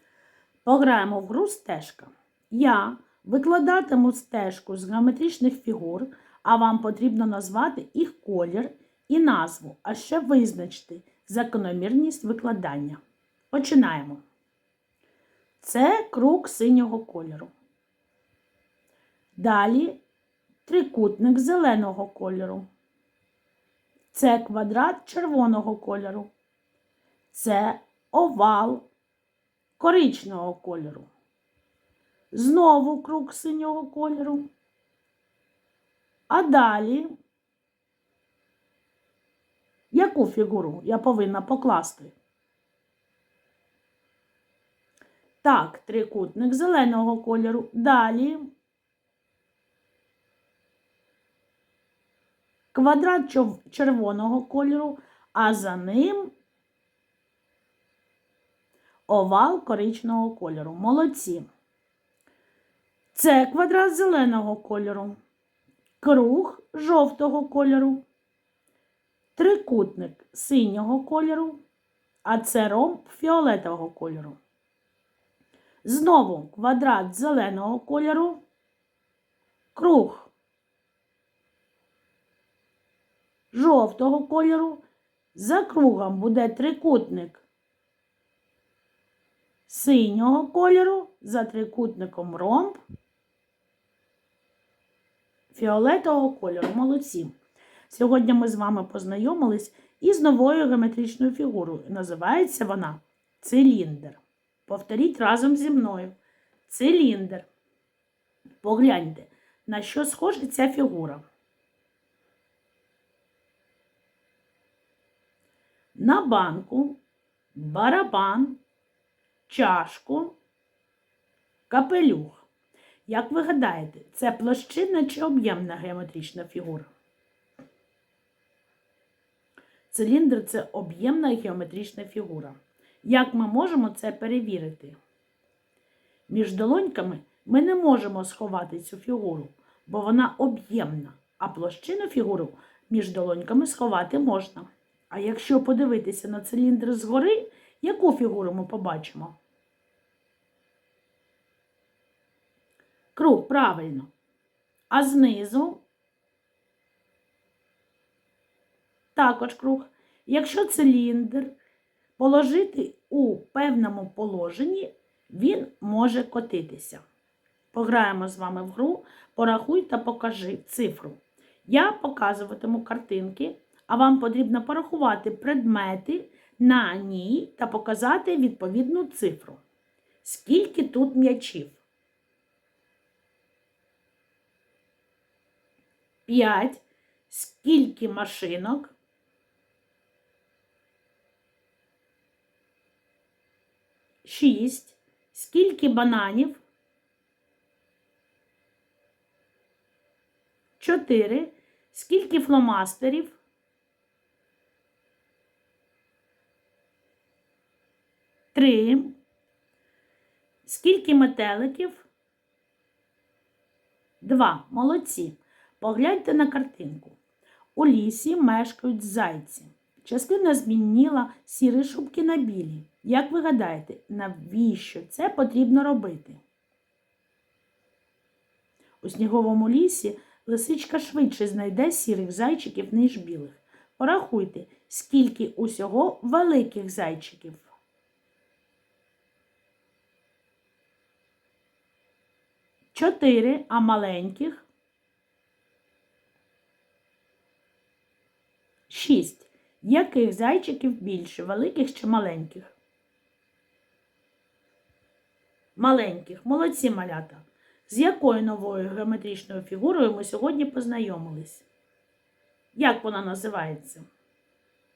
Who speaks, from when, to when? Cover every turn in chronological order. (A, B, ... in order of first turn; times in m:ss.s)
0:00.6-0:13.0 A
0:13.5-0:14.2 A
0:15.6-0:17.5 A
0:19.4-0:20.0 A
0:20.7-0:22.7 A
0:24.1-0:26.3 A
0:27.3-0:28.9 A
0:29.8-0:31.1 A
0:32.3-0:34.5 A
0:36.3-0:37.1 A
0:39.9-0:42.2 A
0:45.4-0:48.5 A
0:52.7-0:56.3 A
0:59.1-1:01.5 A
1:03.1-1:05.2 A
1:06.0-1:08.0 A
1:09.4-1:11.6 A
1:12.2-1:14.4 A
1:15.8-1:18.4 A
1:19.8-1:20.3 A
1:23.5-1:27.4 A
1:29.7-1:32.8 A
1:35.5-1:37.4 A
1:37.9-1:46.2 A
1:46.7-1:47.5 A
1:48.6-1:51.2 A
1:56.0-1:57.0 A
1:57.6-1:58.6 A
1:59.5-2:00.4 A
2:01.7-2:02.5 A
2:03.1-2:06.9 A
2:09.9-2:15.0 A
2:16.3-2:29.4 A
2:33.2-2:34.1 A
2:34.9-2:35.8 A
2:39.2-2:41.5 A
2:42.2-2:47.0 A
2:47.7-2:59.6 A
3:00.2-3:01.8 A
3:06.3-3:09.0 A
3:14.2-3:16.6 A
3:20.8-3:23.4 A
3:28.5-3:29.2 A
3:30.6-3:32.1 A
3:34.2-3:37.2 A
3:37.8-3:46.4 A
3:49.0-3:57.7 A
4:02.9-4:04.7 A
4:08.9-4:12.7 A
4:15.8-4:21.7 A
4:22.8-4:24.1 A